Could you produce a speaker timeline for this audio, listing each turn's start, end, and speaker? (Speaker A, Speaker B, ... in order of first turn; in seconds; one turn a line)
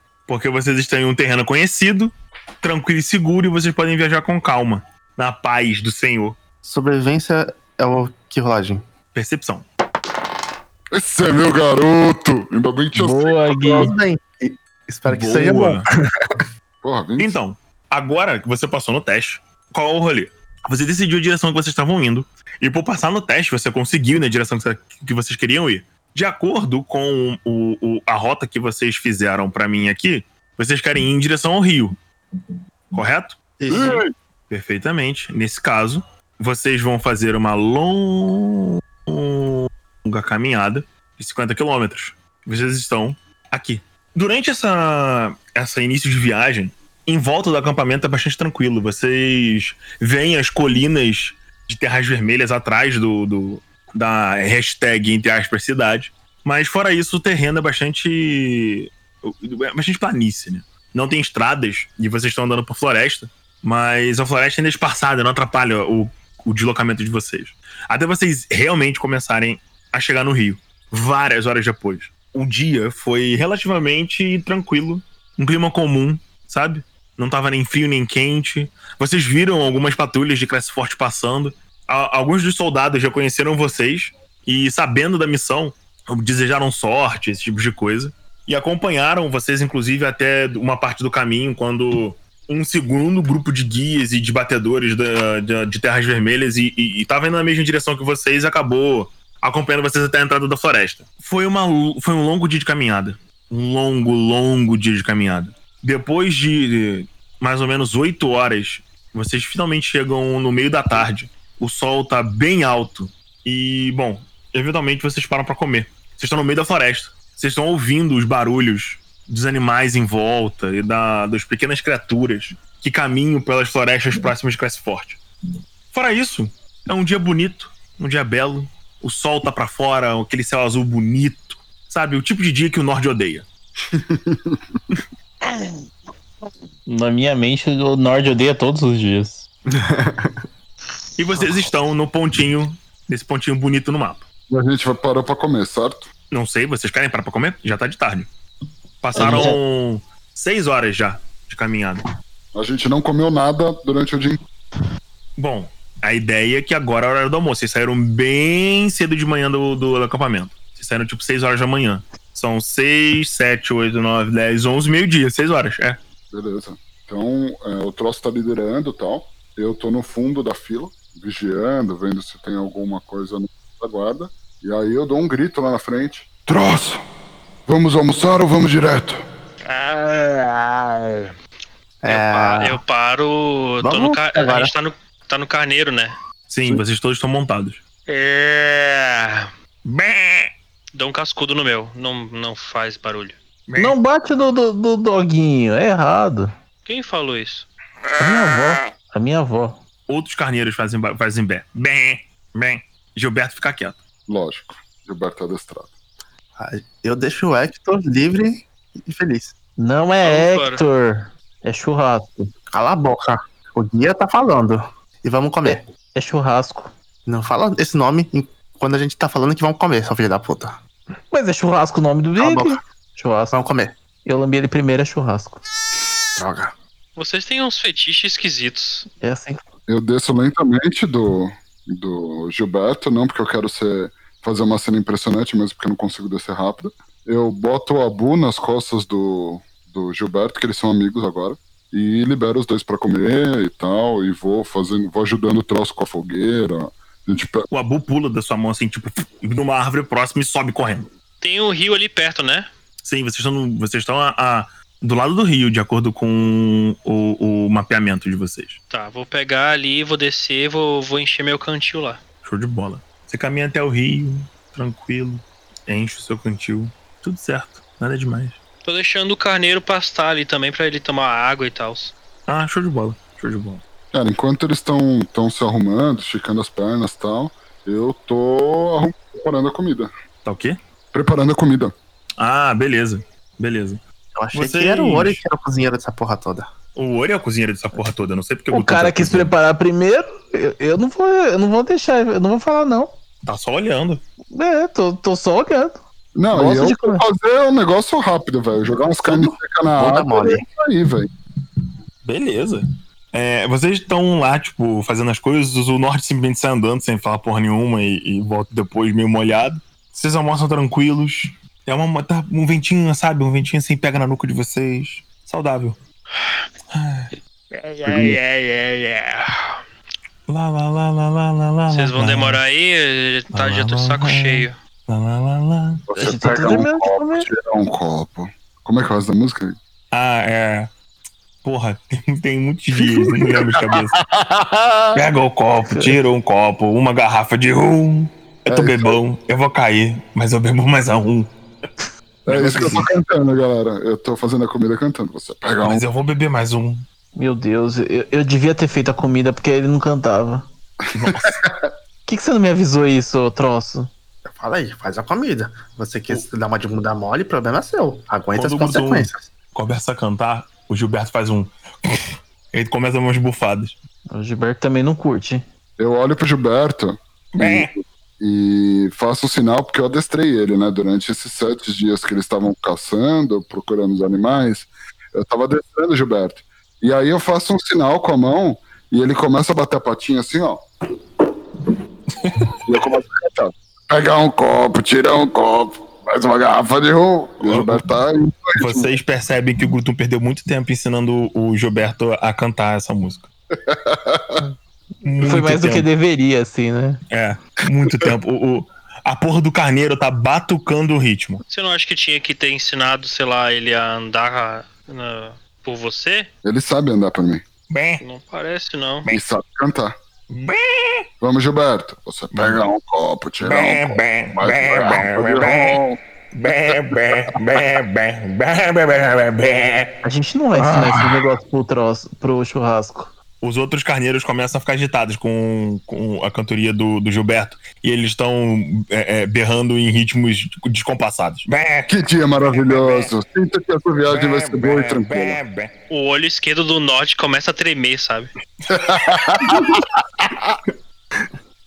Speaker A: 0.3-6.4
Speaker B: 6.6-8.8
Speaker A: 9.1-9.7
Speaker C: 10.9-13.9
Speaker D: 12.9-13.9
Speaker B: 13.7-16.4
Speaker A: 15.1-15.8
Speaker C: 16.8-17.4
Speaker A: 17.2-32.0
Speaker A: 32.9-33.4
Speaker B: 33.6-34.0
Speaker C: 33.7-34.1
Speaker A: 34.5-125.2
Speaker A: 125.9-133.4
Speaker C: 133.9-135.0
Speaker D: 136.9-139.5
Speaker B: 139.7-140.4
Speaker A: 141.2-144.2
Speaker C: 144.5-146.1
Speaker A: 146.3-148.3
Speaker A: 149.0-152.1
Speaker B: 149.2-149.6
Speaker C: 152.5-154.4
Speaker A: 155.4-166.0
Speaker C: 166.3-177.0
Speaker C: 177.7-179.2
Speaker A: 179.7-181.3
Speaker B: 182.0-182.8
Speaker E: 182.1-186.1
Speaker B: 183.8-184.7
Speaker A: 186.5-189.1
Speaker E: 189.2-189.4
Speaker A: 189.8-190.5
Speaker E: 190.9-193.3
Speaker A: 193.7-193.9
Speaker D: 193.8-196.5
Speaker E: 196.8-197.7
Speaker D: 198.2-199.8
Speaker A: 200.1-204.0
Speaker C: 204.3-205.9
Speaker B: 206.6-209.5
Speaker D: 209.8-212.5
Speaker E: 210.2-210.8
Speaker B: 212.7-215.8
Speaker D: 215.6-216.9
Speaker B: 217.2-220.8
Speaker D: 221.3-223.6
Speaker B: 222.4-222.8
Speaker B: 223.5-223.9
Speaker D: 224.2-225.6
Speaker B: 226.3-226.7
Speaker E: 227.2-229.1
Speaker D: 229.2-229.6
Speaker C: 229.9-247.7
Speaker A: 247.7-251.1
Speaker E: 251.4-252.7
Speaker A: 253.0-258.8
Speaker E: 258.9-262.2
Speaker A: 262.4-268.6
Speaker E: 268.8-272.1
Speaker A: 272.5-273.8
Speaker C: 274.1-280.1
Speaker A: 280.4-280.8
Speaker C: 281.1-281.9
Speaker A: 282.4-284.0
Speaker B: 284.3-286.7
Speaker A: 284.5-285.4
Speaker A: 286.9-289.5
Speaker D: 288.7-293.1
Speaker A: 293.4-294.2
Speaker D: 294.5-297.2
Speaker C: 296.3-301.3
Speaker B: 299.2-300.6
Speaker A: 302.2-316.0
Speaker A: 316.9-319.5
Speaker C: 318.1-318.3
Speaker A: 320.5-322.6
Speaker E: 321.9-324.8
Speaker A: 323.5-326.8
Speaker C: 326.1-329.8
Speaker D: 326.2-327.5
Speaker A: 330.1-330.9
Speaker A: 331.6-334.2
Speaker C: 333.4-333.9
Speaker A: 335.1-341.5
Speaker D: 335.9-336.1
Speaker C: 338.7-339.2
Speaker C: 342.5-346.0
Speaker A: 342.5-343.1
Speaker A: 345.8-347.1
Speaker D: 347.4-350.6
Speaker A: 351.1-351.6
Speaker C: 351.2-351.9
Speaker D: 352.2-354.1
Speaker B: 354.4-359.5
Speaker A: 358.5-364.0
Speaker D: 364.3-365.6
Speaker C: 366.0-380.9
Speaker A: 367.5-367.9
Speaker A: 382.4-382.8
Speaker C: 382.7-389.1
Speaker A: 387.6-388.0
Speaker A: 388.8-393.5
Speaker C: 393.9-394.6
Speaker A: 395.2-396.1
Speaker D: 395.4-397.2
Speaker A: 397.3-401.6
Speaker E: 401.7-406.5
Speaker C: 406.6-407.6
Speaker A: 407.9-408.2
Speaker E: 408.2-409.3
Speaker C: 409.3-410.1
Speaker A: 410.5-411.2
Speaker C: 411.4-416.2
Speaker A: 412.5-412.8
Speaker A: 413.6-416.0
Speaker A: 416.5-420.1
Speaker D: 420.2-423.3
Speaker A: 420.8-421.3
Speaker A: 423.6-432.1
Speaker C: 432.1-435.6
Speaker A: 432.7-433.3
Speaker A: 434.3-435.9
Speaker E: 436.1-438.5
Speaker C: 438.9-440.8
Speaker A: 438.9-440.0